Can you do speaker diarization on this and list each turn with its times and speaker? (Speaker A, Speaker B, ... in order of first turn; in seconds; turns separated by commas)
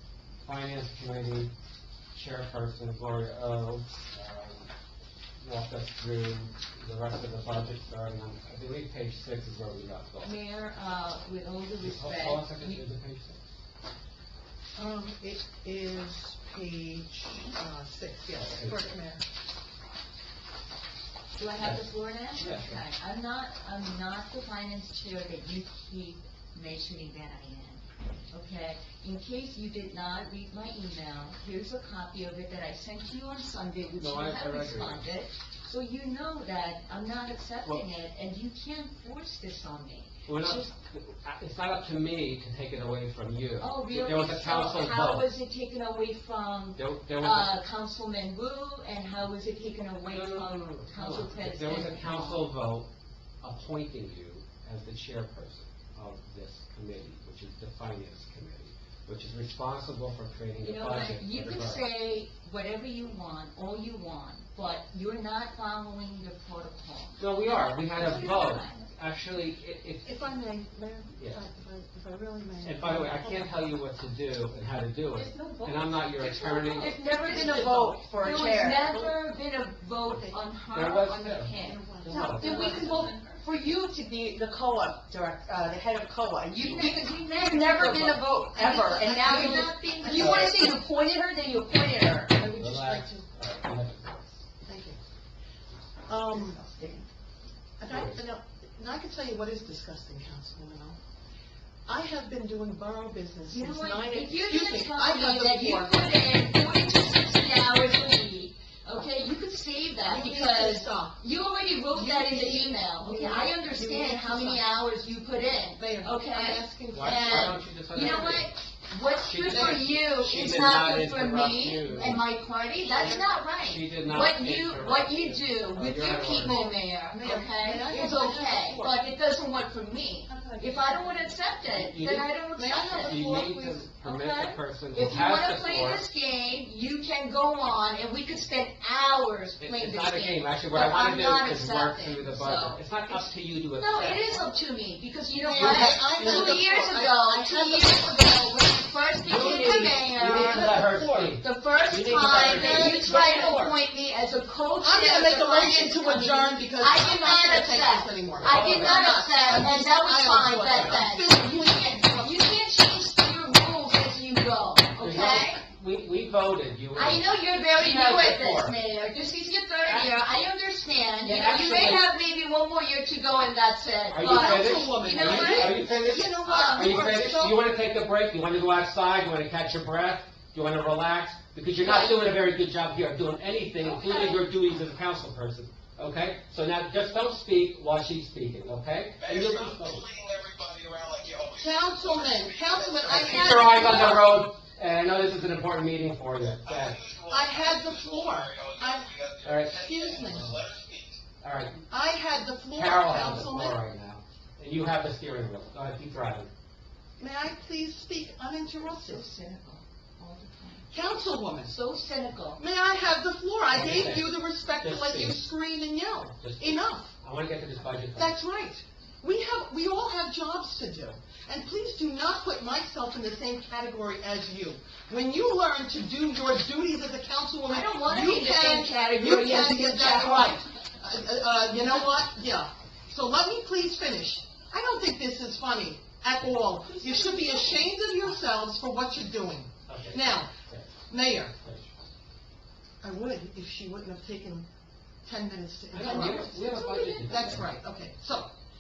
Speaker A: 0.4-1.5, Speaker A: 2.1-4.7, Speaker A: 5.4-10.3, Speaker B: 10.2-12.8, Speaker A: 11.8-13.4, Speaker C: 14.8-19.2, Speaker A: 18.4-18.9, Speaker B: 21.3-40.7, Speaker A: 21.6-21.8, Speaker A: 22.4-22.8, Speaker A: 34.0-35.0, Speaker A: 40.2-45.2, Speaker B: 43.6-52.5, Speaker A: 46.8-47.5, Speaker A: 50.1-52.9, Speaker A: 53.4-61.8, Speaker B: 60.6-68.8, Speaker A: 67.2-70.2, Speaker C: 70.0-73.6, Speaker A: 72.6-76.9, Speaker D: 75.2-75.7, Speaker B: 76.2-83.4, Speaker D: 76.8-79.1, Speaker C: 77.2-78.7, Speaker C: 80.1-80.4, Speaker A: 80.7-82.9, Speaker C: 81.6-83.2, Speaker D: 82.1-92.3, Speaker B: 86.5-90.7, Speaker C: 88.6-90.5, Speaker C: 92.3-93.3, Speaker A: 92.5-94.4, Speaker C: 94.7-95.0, Speaker C: 96.1-96.6, Speaker D: 96.3-97.1, Speaker C: 97.8-101.0, Speaker A: 97.9-98.2, Speaker C: 101.9-106.0, Speaker B: 103.5-133.4, Speaker C: 110.0-111.2, Speaker C: 111.9-114.6, Speaker C: 115.8-117.5, Speaker A: 116.9-118.5, Speaker A: 119.2-122.2, Speaker C: 119.5-119.8, Speaker C: 122.9-123.2, Speaker A: 123.0-126.8, Speaker C: 127.1-129.0, Speaker C: 130.3-131.3, Speaker A: 131.7-132.3, Speaker C: 132.6-133.9, Speaker A: 133.0-136.0, Speaker B: 134.0-165.6, Speaker A: 139.6-144.5, Speaker C: 145.4-148.4, Speaker A: 145.5-146.6, Speaker A: 149.2-153.8, Speaker C: 149.6-151.3, Speaker C: 152.2-153.4, Speaker C: 154.8-162.5, Speaker A: 158.4-159.0, Speaker A: 165.0-168.8, Speaker B: 166.9-175.8, Speaker A: 169.8-170.1, Speaker A: 171.3-172.0, Speaker A: 174.1-190.0, Speaker C: 174.2-177.6, Speaker B: 176.4-177.0, Speaker B: 181.8-182.2, Speaker B: 183.9-184.4, Speaker E: 189.2-194.0, Speaker C: 191.6-194.3, Speaker A: 193.1-197.0, Speaker B: 193.2-194.2, Speaker E: 196.5-201.2, Speaker C: 197.3-199.1, Speaker A: 199.4-199.8, Speaker C: 199.7-200.6, Speaker A: 200.3-200.6, Speaker A: 201.4-201.8, Speaker C: 201.9-203.8, Speaker A: 202.8-206.5, Speaker C: 207.2-209.3, Speaker B: 208.8-210.8, Speaker C: 210.9-211.7, Speaker B: 211.6-212.6, Speaker C: 212.6-217.1, Speaker A: 213.7-215.4, Speaker A: 216.4-218.4, Speaker C: 218.2-240.5, Speaker B: 227.7-230.6, Speaker B: 236.9-237.8, Speaker A: 239.9-240.9, Speaker C: 241.1-241.5, Speaker A: 241.5-241.9, Speaker C: 243.0-244.7, Speaker C: 245.2-248.5, Speaker A: 245.9-247.7, Speaker B: 246.0-247.3